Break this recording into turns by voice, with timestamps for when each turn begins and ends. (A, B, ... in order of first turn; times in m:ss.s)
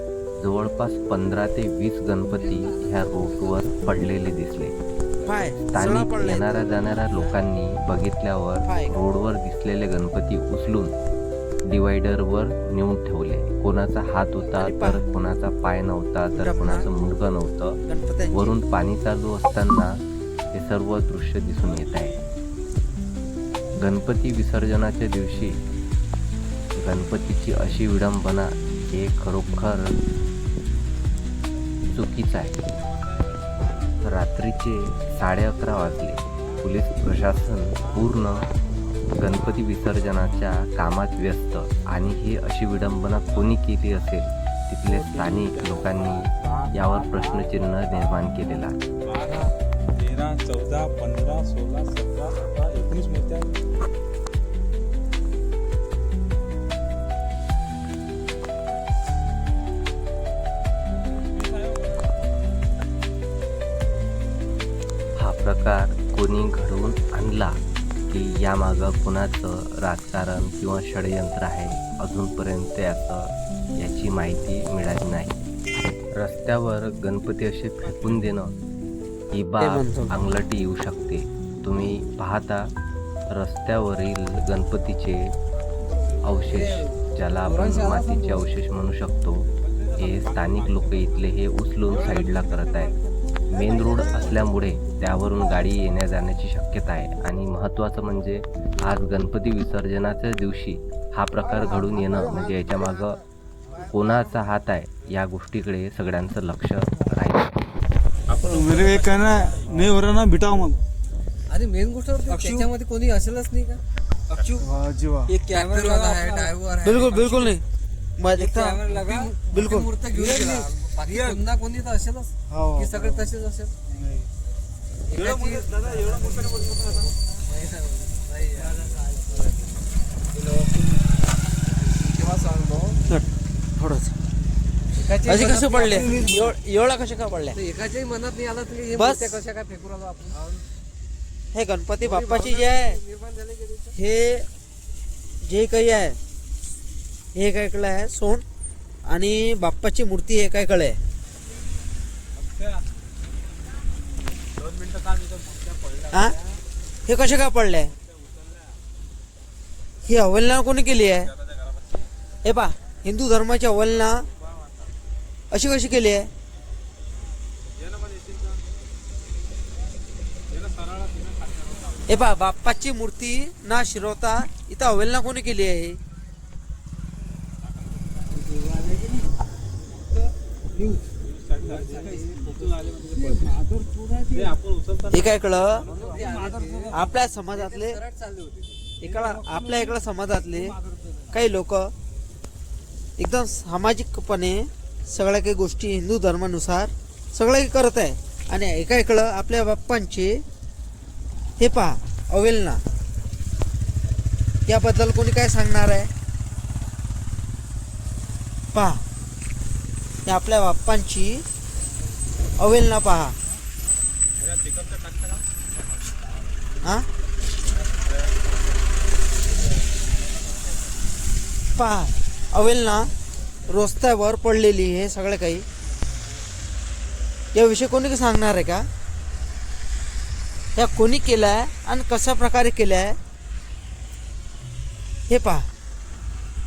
0:00.4-0:04.8 A
0:05.2-0:07.0 B
0:05.7-0:10.9 A
0:08.6-0:09.0 B
0:11.7-0:17.8 A
0:14.6-0:15.0 B
0:16.3-0:16.9 B
0:17.9-0:18.5 B
0:18.3-0:19.9 A
0:20.5-0:22.2 A
0:21.7-0:22.1 C
0:23.8-0:25.6 A
0:26.8-0:29.9 A
0:31.9-0:32.6 A
0:34.0-0:38.5 A
0:39.2-0:48.8 A
0:44.9-0:48.2 C
0:49.0-0:53.6 C
1:01.6-1:01.9 C
1:05.2-1:07.6 A
1:08.1-1:15.4 A
1:16.2-1:18.5 A
1:19.3-1:22.6 A
1:19.6-1:20.1 B
1:23.3-1:25.3 A
1:26.2-1:32.9 A
1:26.4-1:28.4 D
1:29.6-1:31.2 C
1:31.9-1:32.8 C
1:33.5-1:43.2 A
1:43.8-1:47.6 A
1:48.3-1:50.0 C
1:48.5-1:50.8 E
1:51.5-1:53.8 D
1:54.4-1:54.7 D
1:54.6-1:55.3 E
1:55.3-1:57.6 D
1:56.8-1:57.6 B
1:58.2-1:59.9 B
1:58.3-2:03.8 D
2:00.2-2:00.5 C
2:01.1-2:01.4 C
2:02.5-2:03.3 E
2:05.1-2:09.7 D
2:05.1-2:07.1 C
2:11.8-2:13.1 D
2:13.8-2:14.1 B
2:15.0-2:16.5 D
2:15.2-2:17.6 B
2:17.6-2:20.6 D
2:18.9-2:19.4 B
2:21.5-2:23.0 B
2:22.0-2:24.0 D
2:24.0-2:24.5 B
2:25.4-2:26.2 B
2:27.4-2:28.4 B
2:29.1-2:31.0 B
2:32.4-2:32.8 C
2:34.4-2:36.6 C
2:36.1-2:36.4 B
2:37.1-2:37.9 B
2:38.1-2:38.8 C
2:40.0-2:41.3 B
2:42.4-2:44.3 B
2:45.5-2:46.3 B
2:47.8-2:48.6 C
2:50.5-2:52.1 C
2:52.1-2:56.0 B
2:58.6-2:59.0 D
3:01.2-3:03.6 C
3:01.8-3:04.3 D
3:04.3-3:07.0 C
3:05.1-3:05.8 B
3:05.8-3:09.5 D
3:06.9-3:08.0 B
3:09.0-3:10.8 B
3:11.3-3:11.9 B
3:13.2-3:20.4 B
3:21.6-3:22.8 B
3:24.7-3:26.1 B
3:28.7-3:29.0 B
3:30.3-3:31.4 B
3:32.6-3:33.4 B
3:34.4-3:35.4 C
3:36.8-3:37.1 B
3:41.8-3:43.1 B
3:43.7-3:45.6 B
3:47.6-3:48.9 B
3:50.8-3:53.2 B
3:55.3-3:55.7 B